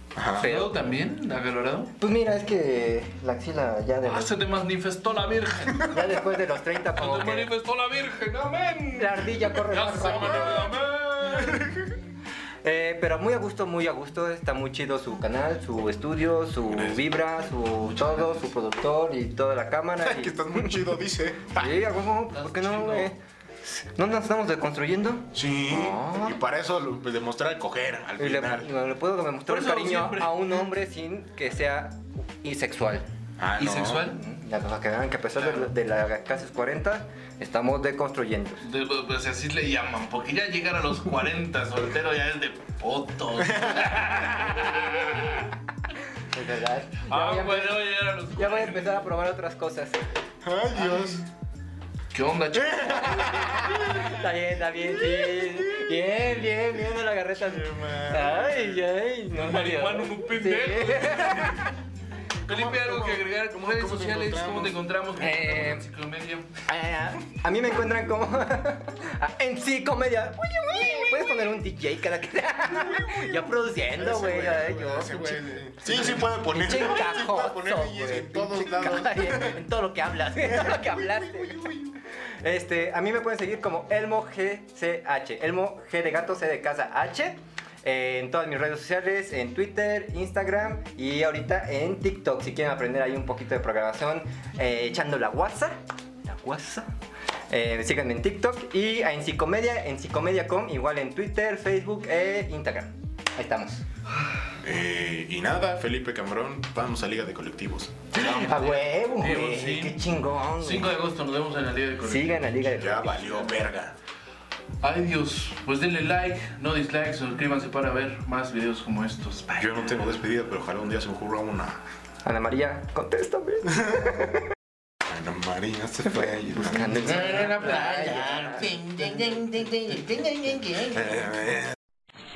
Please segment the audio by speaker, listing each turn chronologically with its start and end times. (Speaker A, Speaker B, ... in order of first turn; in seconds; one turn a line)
Speaker A: 0.1-0.5
Speaker B: 0.3-0.8
Speaker C: 0.4-1.9
Speaker B: 2.0-4.3
Speaker C: 4.0-6.3
Speaker B: 5.8-7.5
Speaker C: 7.0-11.9
Speaker B: 8.9-10.7
Speaker A: 10.4-10.7
Speaker A: 11.3-11.9
Speaker B: 12.6-20.9
Speaker A: 16.7-17.1
Speaker A: 20.0-21.9
Speaker B: 21.6-26.4
Speaker C: 22.3-23.1
Speaker A: 25.3-28.7
Speaker B: 28.2-33.1
Speaker C: 29.5-30.7
Speaker A: 33.4-34.1
Speaker C: 33.6-34.2
Speaker B: 34.1-38.6
Speaker C: 35.4-35.7
Speaker C: 38.6-45.5
Speaker A: 43.4-44.5
Speaker B: 46.3-50.0
Speaker C: 47.1-49.2
Speaker A: 50.4-51.2
Speaker C: 50.8-51.2
Speaker C: 52.1-53.9
Speaker A: 52.5-54.3
Speaker B: 52.9-61.7
Speaker A: 54.8-56.7
Speaker A: 57.4-58.9
Speaker C: 59.3-61.8
Speaker A: 62.4-64.8
Speaker C: 62.5-66.5
Speaker B: 65.2-65.8
Speaker B: 66.7-96.9
Speaker A: 72.8-73.3
Speaker A: 73.8-79.7
Speaker A: 80.3-81.8
Speaker B: 97.5-103.8
Speaker A: 104.6-108.8
Speaker B: 108.1-111.0
Speaker C: 108.2-113.5
Speaker B: 112.0-113.1
Speaker A: 112.7-114.0
Speaker C: 114.8-119.8
Speaker A: 119.5-121.8
Speaker B: 122.2-124.4
Speaker A: 123.7-124.1
Speaker A: 125.1-127.2
Speaker B: 126.5-128.9
Speaker C: 126.8-131.5
Speaker A: 130.9-131.7